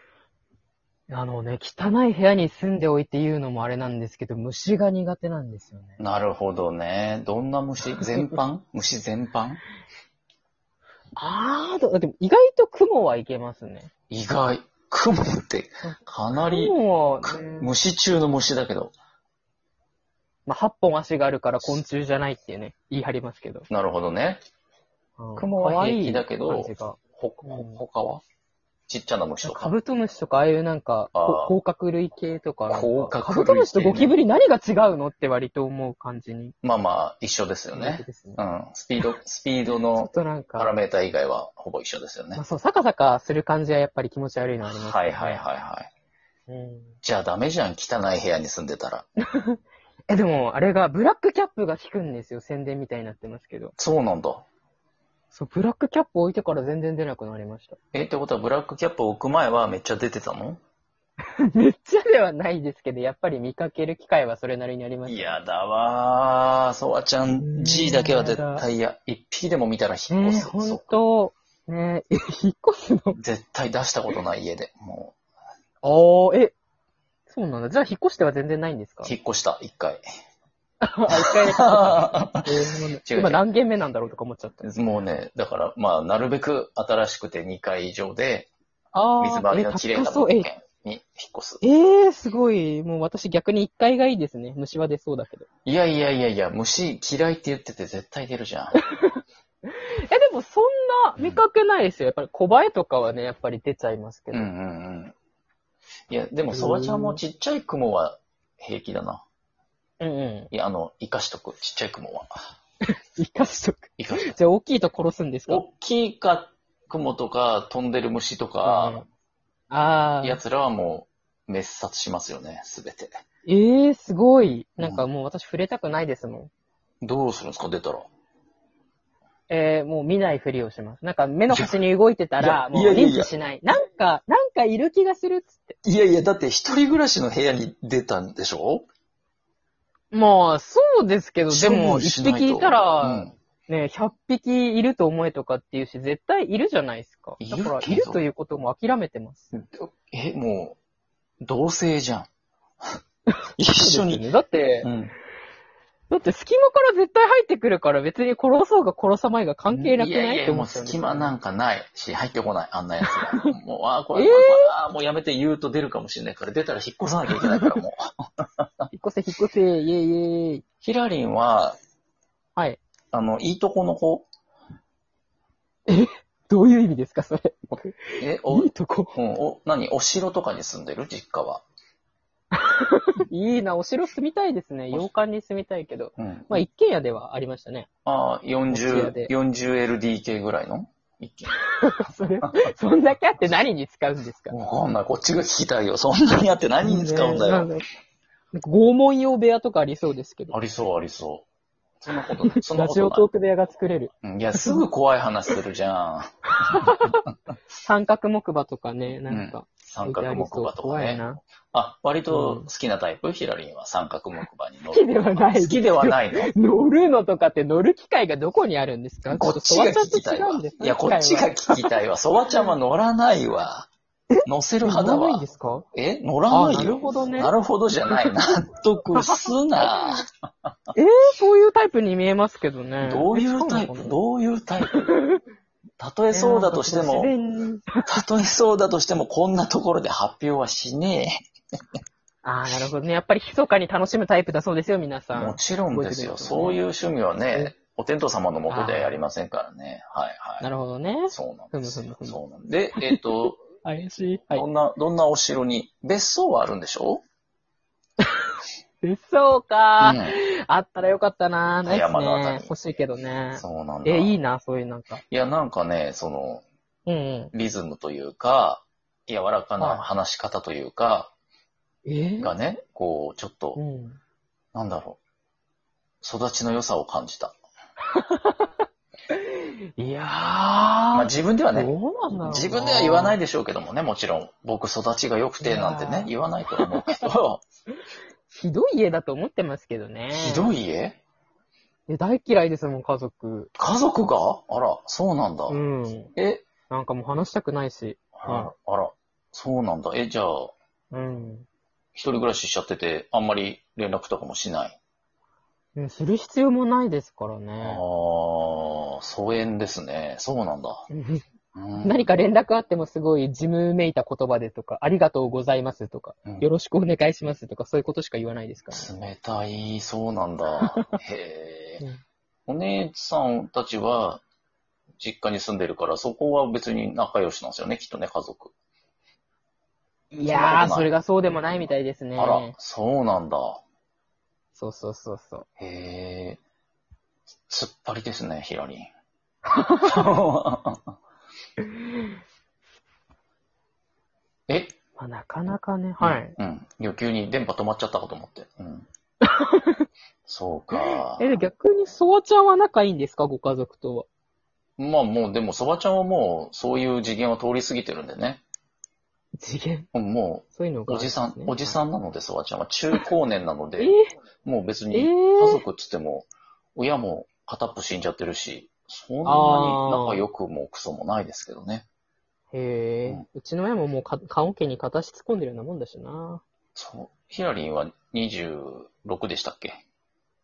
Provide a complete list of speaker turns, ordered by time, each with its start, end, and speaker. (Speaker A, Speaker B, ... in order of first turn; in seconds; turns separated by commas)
Speaker A: 1.1-6.0, Speaker B: 6.0-9.6, Speaker A: 8.0-8.4, Speaker A: 11.2-13.9, Speaker B: 14.1-18.9, Speaker A: 15.8-17.7, Speaker A: 20.4-23.7, Speaker B: 23.7-24.4, Speaker A: 25.2-27.8, Speaker B: 25.4-28.2, Speaker B: 28.9-29.7, Speaker A: 29.4-36.5, Speaker B: 31.1-31.5, Speaker B: 32.7-34.1, Speaker B: 36.6-42.4, Speaker A: 37.7-38.4, Speaker A: 39.9-40.7, Speaker A: 42.4-45.4, Speaker B: 44.7-45.9, Speaker A: 46.5-47.0, Speaker B: 47.0-49.1, Speaker A: 49.3-53.7, Speaker B: 53.8-54.5, Speaker A: 55.3-57.8, Speaker B: 57.9-60.6, Speaker A: 61.4-65.4, Speaker B: 65.0-70.9, Speaker A: 67.4-68.7, Speaker A: 70.1-73.2, Speaker B: 73.1-75.1, Speaker A: 75.8-76.5, Speaker A: 77.3-79.1, Speaker B: 79.0-80.0, Speaker A: 80.8-84.6, Speaker B: 81.1-82.5, Speaker B: 83.0-83.4, Speaker B: 84.6-88.5, Speaker A: 88.9-90.5, Speaker B: 89.2-91.6, Speaker A: 91.6-95.5, Speaker B: 95.6-98.8, Speaker A: 98.7-104.5, Speaker B: 104.3-105.1, Speaker B: 106.1-109.2, Speaker A: 106.5-107.2, Speaker A: 110.0-110.5, Speaker B: 110.5-112.3, Speaker A: 113.2-115.6, Speaker B: 114.0-114.3, Speaker B: 115.5-119.0, Speaker A: 118.6-119.0, Speaker A: 119.7-120.4, Speaker B: 120.2-123.2, Speaker A: 123.4-126.5, Speaker B: 124.8-125.0, Speaker B: 127.0-128.1, Speaker A: 129.5-135.8, Speaker B: 132.4-133.3, Speaker B: 135.8-138.8, Speaker A: 140.1-149.5, Speaker B: 141.5-143.3, Speaker B: 147.4-148.2, Speaker B: 149.5-150.8, Speaker B: 151.4-152.3, Speaker B: 153.6-154.2, Speaker A: 153.6-154.9, Speaker B: 154.8-155.1, Speaker A: 156.1-161.3, Speaker B: 159.7-168.9, Speaker A: 164.1-164.7, Speaker A: 167.3-167.7, Speaker A: 168.9-170.6, Speaker B: 170.8-171.8, Speaker B: 173.1-174.3, Speaker A: 175.9-179.2, Speaker B: 177.7-181.6, Speaker A: 182.5-187.9, Speaker B: 186.2-186.6, Speaker B: 188.1-191.6, Speaker A: 188.7-189.3, Speaker A: 191.5-194.5, Speaker B: 194.5-197.7, Speaker A: 196.8-197.8, Speaker A: 198.5-200.5, Speaker B: 200.5-201.4, Speaker B: 202.0-203.2, Speaker A: 202.4-204.8, Speaker B: 204.2-206.3, Speaker A: 206.6-207.2, Speaker A: 207.8-211.4, Speaker B: 209.3-216.5, Speaker A: 212.3-212.7, Speaker A: 214.9-221.9, Speaker B: 219.3-223.9, Speaker A: 224.3-225.8, Speaker B: 224.4-225.4, Speaker B: 225.9-230.3, Speaker A: 226.5-227.5, Speaker A: 229.1-230.2, Speaker A: 230.9-234.2, Speaker B: 233.0-235.1, Speaker A: 234.8-235.4, Speaker B: 236.0-237.3, Speaker A: 236.3-238.1, Speaker B: 238.0-241.4, Speaker A: 242.4-246.8, Speaker B: 245.3-250.7, Speaker A: 248.7-249.2, Speaker A: 250.6-252.4, Speaker B: 251.3-253.6, Speaker A: 253.0-254.6, Speaker B: 254.5-257.2, Speaker A: 258.2-265.2, Speaker B: 260.0-260.4, Speaker B: 261.8-262.7, Speaker B: 263.6-264.4, Speaker B: 265.3-266.6, Speaker A: 267.1-267.5, Speaker B: 267.5-271.3, Speaker A: 269.8-270.1, Speaker A: 272.1-272.5, Speaker B: 272.4-273.8, Speaker A: 273.8-274.2, Speaker B: 274.7-275.2, Speaker B: 276.2-277.5, Speaker A: 278.1-278.7, Speaker A: 279.3-283.4, Speaker B: 281.1-281.9, Speaker B: 282.5-287.6, Speaker A: 285.6-287.2, Speaker A: 288.5-290.7, Speaker B: 290.3-291.2, Speaker A: 292.1-293.7, Speaker B: 293.8-295.8, Speaker A: 295.7-296.3, Speaker B: 296.4-296.6, Speaker A: 296.9-298.7, Speaker B: 298.4-300.7, Speaker A: 301.1-301.6, Speaker B: 302.1-305.0, Speaker A: 305.9-308.0, Speaker B: 307.8-311.0, Speaker A: 311.1-311.4, Speaker B: 311.7-312.3, Speaker A: 312.0-319.1, Speaker B: 318.9-322.0, Speaker A: 320.8-321.1, Speaker B: 322.7-324.4, Speaker B: 325.2-328.7, Speaker A: 330.3-332.7, Speaker B: 330.4-331.1, Speaker B: 332.4-333.8, Speaker A: 334.7-335.7, Speaker B: 335.8-336.6, Speaker B: 337.6-339.1, Speaker A: 339.7-340.4, Speaker B: 340.0-341.1, Speaker B: 344.7-344.9, Speaker A: 345.2-346.5, Speaker B: 346.2-349.1, Speaker A: 349.4-350.1, Speaker B: 350.5-351.5, Speaker A: 350.9-354.3, Speaker B: 355.0-358.6, Speaker A: 359.6-360.1, Speaker B: 360.1-364.1, Speaker A: 360.8-362.0, Speaker A: 364.0-364.3, Speaker B: 364.6-372.1, Speaker A: 365.1-365.8, Speaker A: 369.4-370.4, Speaker A: 372.7-376.6, Speaker B: 376.9-380.0